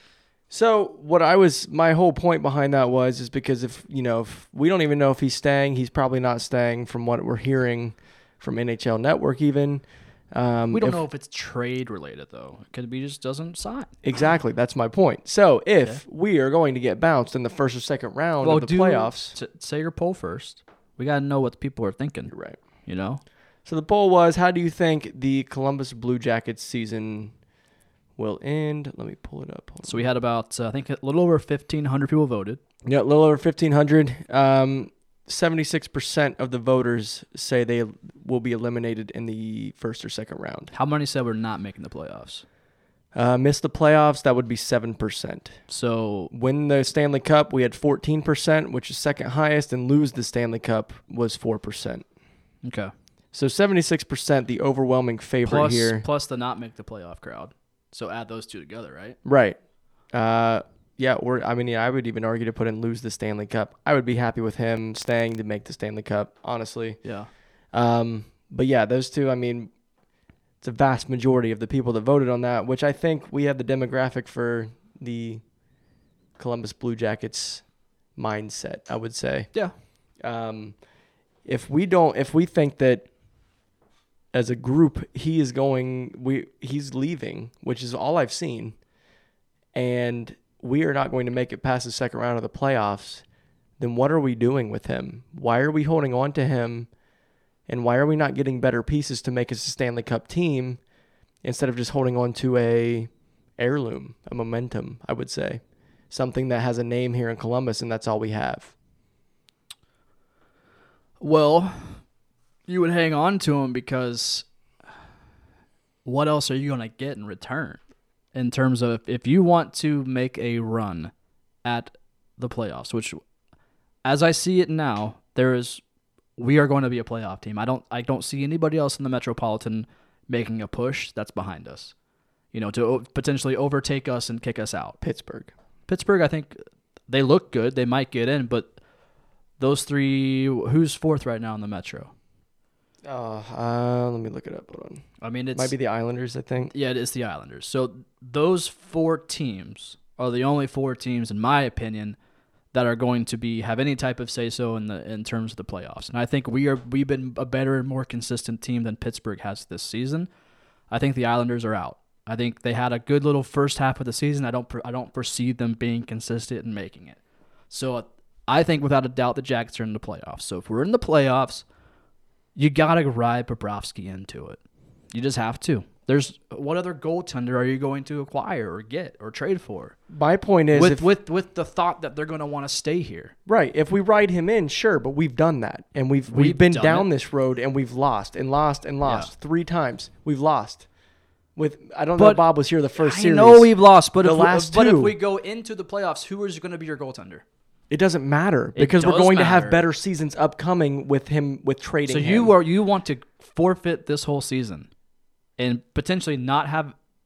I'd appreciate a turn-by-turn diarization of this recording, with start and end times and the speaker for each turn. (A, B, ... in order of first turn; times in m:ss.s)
0:00.5-0:11.0 A
0:10.7-0:13.9 B
0:14.0-0:19.4 A
0:18.4-0:22.3 B
0:22.3-0:22.6 A
0:22.8-0:23.2 B
0:23.6-0:27.3 A
0:28.2-0:30.0 A
0:29.8-0:32.6 B
0:32.8-0:40.7 A
0:40.7-0:42.4 B
0:43.1-0:45.6 A
0:45.7-0:46.3 B
0:46.3-0:52.0 A
0:52.6-0:52.9 B
0:53.3-0:56.0 A
0:55.4-0:59.2 B
0:59.2-0:59.6 A
1:00.1-1:07.0 A
1:07.0-1:07.3 B
1:07.7-1:09.7 A
1:10.6-1:15.4 A
1:16.4-1:19.6 A
1:20.2-1:20.8 A
1:21.4-1:23.1 A
1:24.3-1:28.8 A
1:29.7-1:33.2 A
1:33.8-1:36.9 A
1:37.7-1:40.8 A
1:41.4-1:48.7 A
1:51.2-1:52.0 B
1:52.7-1:54.4 B
1:56.0-1:57.8 B
1:58.3-2:01.1 B
2:01.6-2:03.2 B
2:04.0-2:05.8 B
2:06.4-2:11.9 B
2:12.5-2:15.0 B
2:15.0-2:15.5 A
2:15.9-2:18.8 B
2:19.6-2:22.1 B
2:23.0-2:26.7 A
2:25.2-2:25.7 B
2:26.7-2:32.2 B
2:32.7-2:40.3 B
2:40.9-2:47.2 B
2:47.7-2:51.6 B
2:52.5-2:54.6 B
2:55.1-3:00.0 B
3:00.1-3:01.1 A
3:00.7-3:03.3 B
3:03.4-3:10.9 A
3:06.3-3:07.1 B
3:09.0-3:09.3 B
3:11.6-3:15.2 A
3:12.2-3:17.4 B
3:17.9-3:22.5 A
3:18.7-3:19.8 B
3:22.1-3:24.9 B
3:25.6-3:26.9 B